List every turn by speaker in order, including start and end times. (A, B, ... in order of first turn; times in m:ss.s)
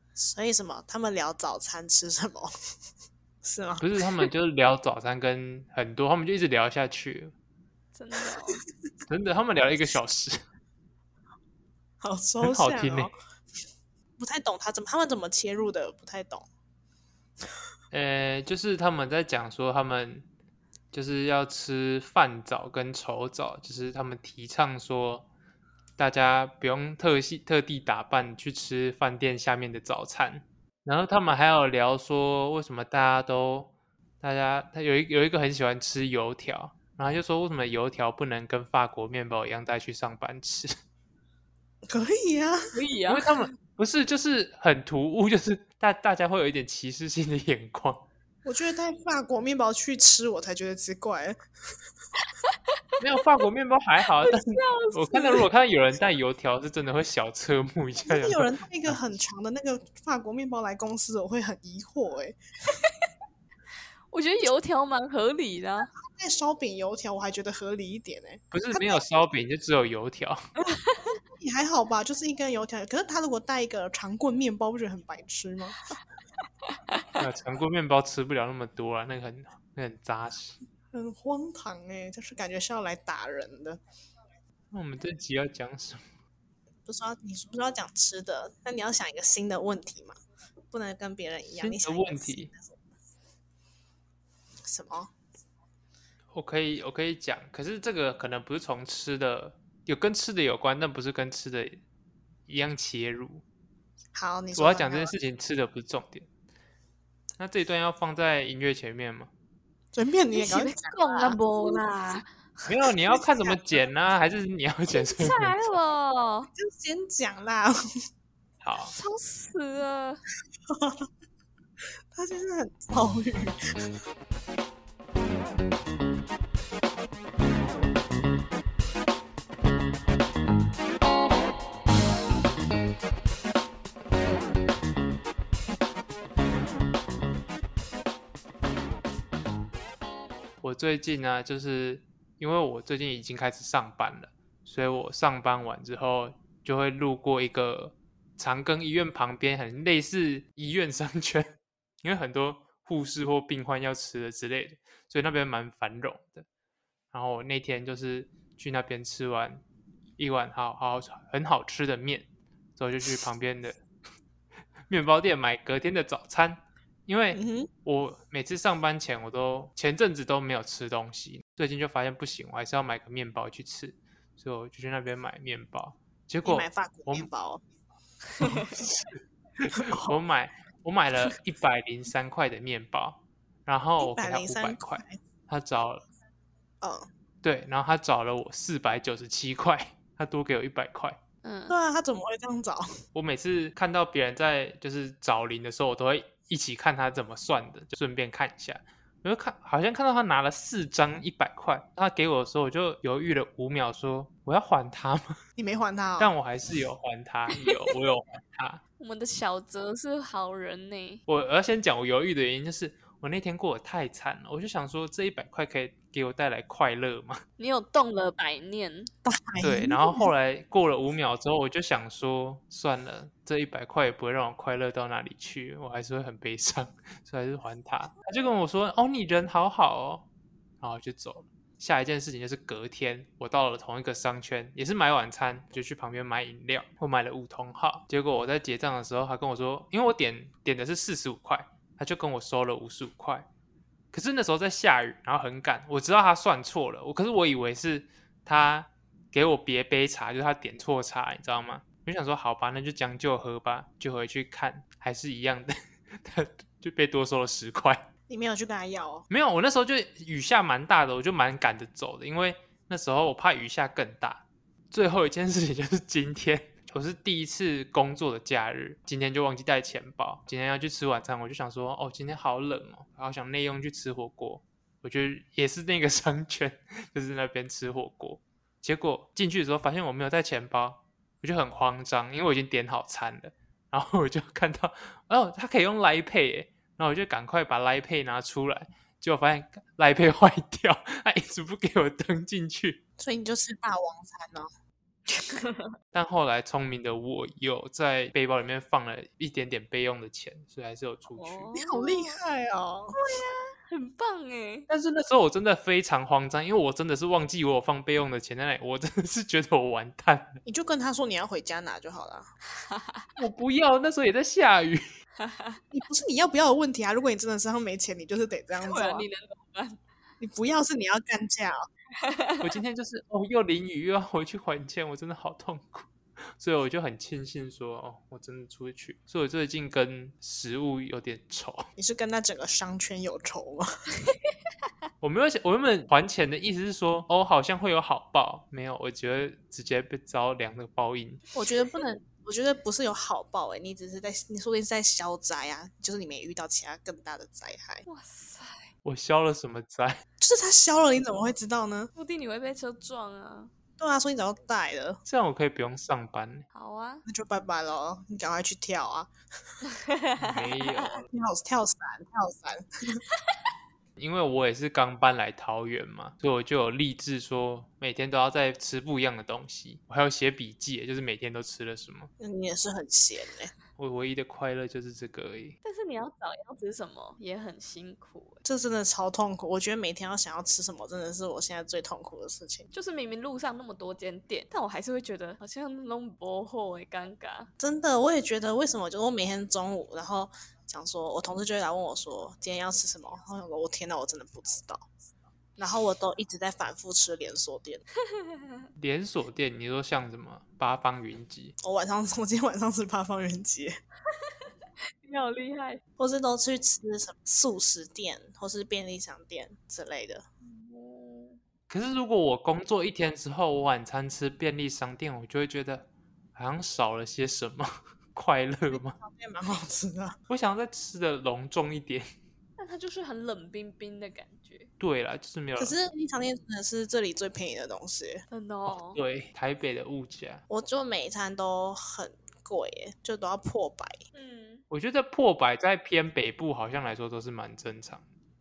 0:00.2-0:02.5 A
0:03.4-0:03.9 A
0:03.8-0:07.3 B
0:07.9-0:08.6 C
0:09.1-0:10.4 B
0:12.0-0:13.1 A
0:12.4-0:13.1 B
0:14.2-0:16.4 A
0:17.9-0:20.2 B
0:20.9-0:25.2 B
0:26.0-0:40.7 B
0:41.9-0:42.7 A
0:42.7-0:43.5 C
0:43.1-0:48.0 B
0:48.4-0:51.4 A
0:53.0-0:59.2 B
0:54.2-0:55.4 C
0:58.0-1:02.4 A
1:04.1-1:05.9 C
1:06.0-1:09.0 A
1:08.5-1:10.4 B
1:10.7-1:11.2 C
1:11.4-1:15.8 A
1:16.7-1:17.0 C
1:17.2-1:20.6 B
1:20.9-1:23.8 A
1:24.7-1:26.0 B
1:26.8-1:30.2 A
1:30.7-1:32.8 A
1:31.5-1:32.5 B
1:34.7-1:35.1 A
1:36.3-1:41.8 B
1:42.5-1:43.4 B
1:44.1-1:45.1 A
1:44.5-1:46.3 B
1:47.4-1:49.3 B
1:49.9-1:51.8 A
1:50.3-1:52.3 C
1:52.6-1:55.6 B
1:53.1-1:53.6 A
1:54.9-1:56.5 C
1:56.6-1:57.7 A
1:58.6-1:58.9 B
1:59.0-2:00.2 C
2:00.7-2:01.1 A
2:02.1-2:04.0 A
2:20.6-2:36.4 B
2:37.1-2:39.6 B
2:40.2-2:43.8 B
2:44.9-2:57.3 B
2:47.3-2:47.7 A
2:56.4-2:57.6 A
2:58.4-3:06.0 B
2:58.4-2:58.7 C
2:59.8-3:00.1 A
3:04.0-3:05.2 A
3:06.8-3:07.1 A
3:07.4-3:11.2 B
3:11.4-3:11.7 C
3:11.7-3:12.9 A
3:13.1-3:25.4 B
3:25.6-3:26.3 A
3:26.2-3:28.8 B
3:29.0-3:31.2 C
3:31.3-3:37.4 B
3:37.6-3:39.1 C
3:39.2-3:40.3 A
3:39.6-3:50.3 B
3:50.8-4:03.4 B
4:04.1-4:18.1 B
4:18.3-4:19.3 A
4:19.3-4:53.0 B
4:53.2-4:54.7 A
4:55.3-4:55.9 C
4:56.1-5:01.7 B
5:01.4-5:02.4 C
5:01.7-5:03.2 A
5:03.2-5:04.9 C
5:04.9-5:10.6 B
5:10.6-5:12.5 A
5:12.8-5:13.3 C
5:13.4-5:15.0 B
5:15.4-5:15.8 C
5:15.9-5:19.3 A
5:18.8-5:20.0 C
5:20.4-5:21.8 A
5:22.2-5:22.7 C
5:22.6-5:31.9 B
5:32.0-5:33.8 A
5:35.2-5:41.4 B
5:41.5-5:48.0 A
5:48.1-5:48.9 C
5:49.0-5:50.2 B
5:50.4-5:52.1 A
5:52.1-5:53.7 C
5:54.0-5:55.2 A
5:55.2-5:56.6 B
5:56.7-5:57.2 C
5:57.2-5:59.3 A
5:59.9-6:01.2 C
6:00.4-6:01.2 B
6:01.3-6:03.2 A
6:04.2-6:12.3 B
6:12.4-6:13.7 A
6:14.0-6:15.8 B
6:15.8-6:18.6 C
6:18.6-6:22.9 A
6:22.9-6:27.7 C
6:27.8-6:35.1 A
6:35.8-6:38.0 A
6:39.0-6:41.7 B
6:41.8-6:43.9 A
6:45.2-6:46.0 C
6:46.2-6:50.4 A
6:50.6-6:51.6 C
6:51.9-6:59.2 B
6:58.9-7:00.4 A
7:00.5-7:02.3 B
7:02.8-7:04.9 C
7:05.0-7:06.0 B
7:05.8-7:08.4 A
7:08.5-7:09.2 C
7:08.9-7:10.6 B
7:10.7-7:14.2 A
7:14.3-7:14.8 C
7:14.9-7:18.2 B